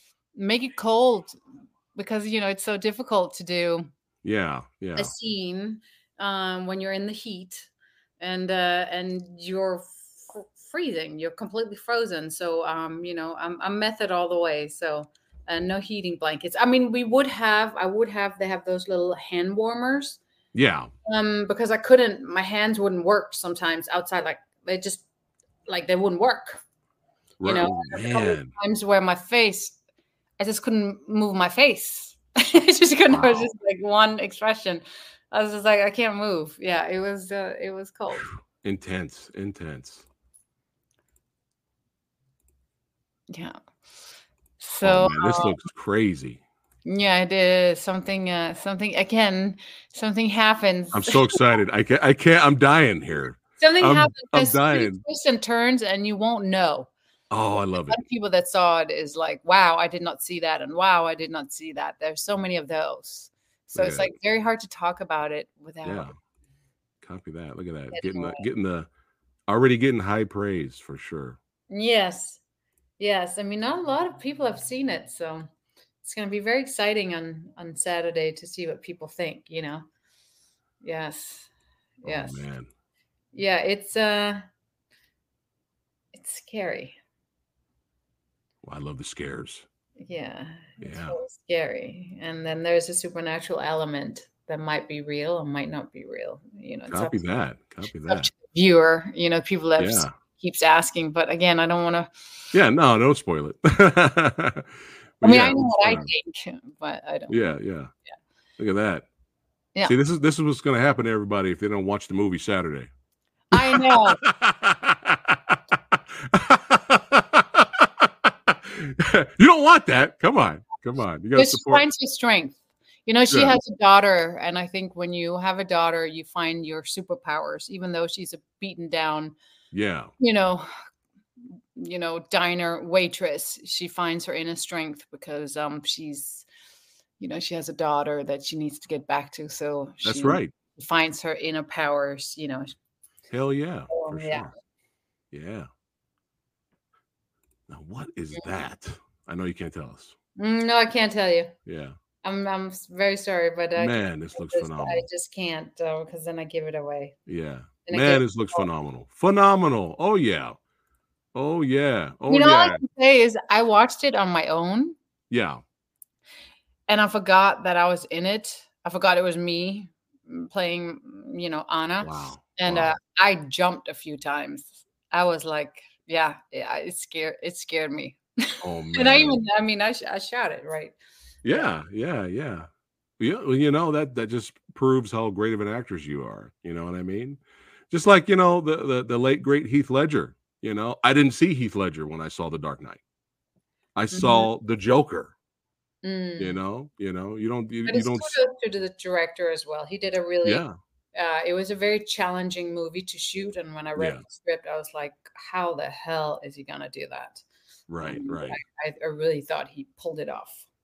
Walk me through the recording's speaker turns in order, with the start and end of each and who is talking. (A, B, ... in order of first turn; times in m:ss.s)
0:00.4-0:01.4 A
0:02.0-0:03.9 A
0:04.2-0:05.1 B
0:05.0-0:20.2 A
0:20.5-0:20.9 B
0:21.0-0:25.0 A
0:25.7-0:26.6 A
0:27.4-0:28.5 B
0:27.4-0:29.8 A
0:30.4-0:38.3 A
0:33.1-0:33.5 B
0:38.2-0:40.0 B
0:43.3-0:43.6 A
0:44.6-0:45.6 A
0:44.8-0:46.4 B
0:46.8-0:51.4 A
0:50.9-0:55.0 B
0:53.6-0:56.9 A
0:57.3-0:58.0 B
0:57.8-1:06.1 A
1:03.8-1:04.1 B
1:05.8-1:06.1 B
1:07.0-1:08.9 B
1:07.9-1:08.4 A
1:09.5-1:11.4 B
1:11.7-1:12.4 A
1:13.0-1:15.5 A
1:16.0-1:19.8 A
1:20.8-1:21.5 A
1:22.0-1:22.4 A
1:22.0-1:22.7 B
1:23.3-1:24.4 A
1:26.1-1:27.0 A
1:28.6-1:29.6 B
1:30.0-1:37.2 A
1:30.8-1:31.2 B
1:36.9-1:38.3 B
1:38.1-1:42.1 A
1:39.8-1:40.1 B
1:42.5-1:46.1 B
1:45.2-1:47.5 A
1:47.3-1:47.9 B
1:48.6-1:49.1 B
1:49.9-1:52.9 B
1:53.5-1:54.2 A
1:53.5-2:01.9 B
2:01.4-2:09.4 A
2:03.3-2:03.6 B
2:09.7-2:10.1 B
2:10.2-2:10.7 A
2:11.8-2:16.5 A
2:17.2-2:22.7 A
2:20.0-2:20.5 B
2:23.3-2:24.5 B
2:23.9-2:24.5 A
2:25.3-2:25.7 B
2:27.7-2:30.2 B
2:30.4-2:31.5 A
2:31.7-2:32.0 B
2:32.2-2:37.2 A
2:33.8-2:35.0 B
2:37.3-2:40.6 B
2:37.9-2:38.6 A
2:41.3-2:42.8 B
2:42.3-2:45.0 A
2:45.3-2:45.6 B
2:46.9-3:01.0 A
2:52.0-2:53.0 B
2:58.6-2:59.4 B
3:01.4-3:02.7 B
3:03.2-3:13.0 B
3:14.0-3:15.3 B
3:14.1-3:14.5 A
3:16.0-3:16.6 A
3:16.4-3:18.4 B
3:17.9-3:27.4 A
3:20.4-3:20.7 B
3:24.0-3:24.2 B
3:27.9-3:28.6 B
3:28.0-3:30.6 A